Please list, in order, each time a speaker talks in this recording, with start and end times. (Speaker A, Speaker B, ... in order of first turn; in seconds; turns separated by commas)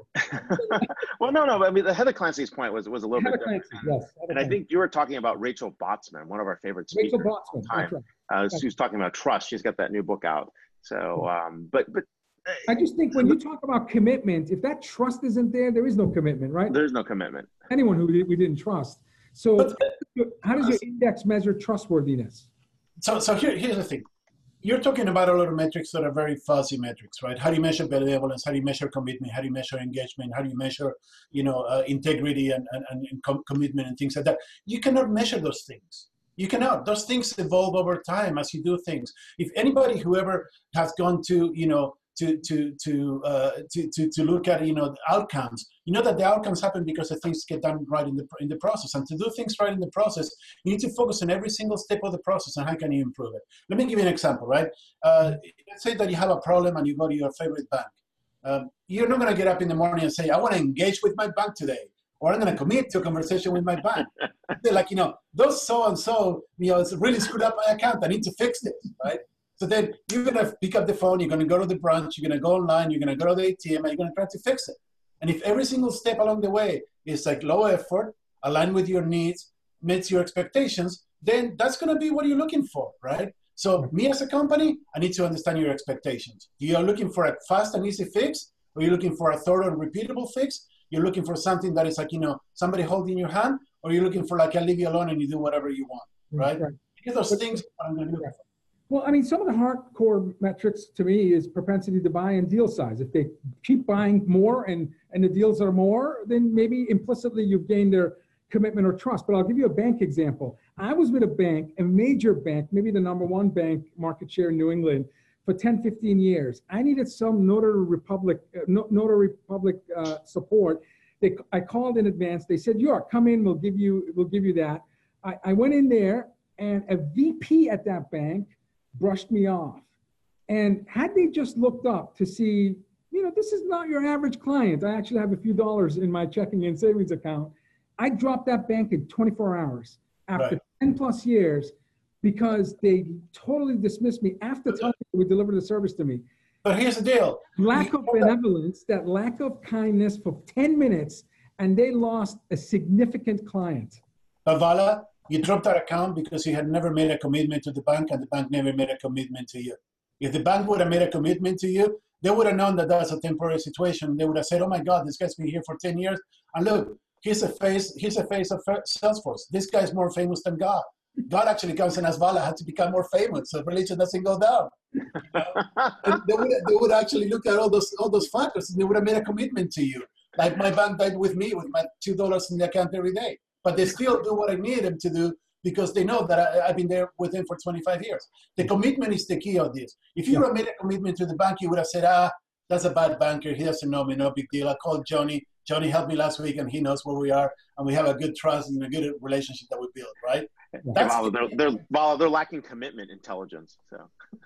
Speaker A: 0.3-12.6, Speaker B: 3.2-4.6, Speaker B: 6.9-8.6, Speaker B: 12.7-16.8, Speaker A: 16.7-17.5, Speaker B: 17.7-22.5, Speaker C: 23.0-24.1, Speaker C: 24.6-98.4, Speaker B: 96.3-96.8, Speaker B: 98.9-129.9, Speaker B: 130.5-146.2, Speaker C: 146.6-148.3, Speaker B: 147.6-154.0, Speaker C: 154.5-201.6, Speaker A: 200.9-204.1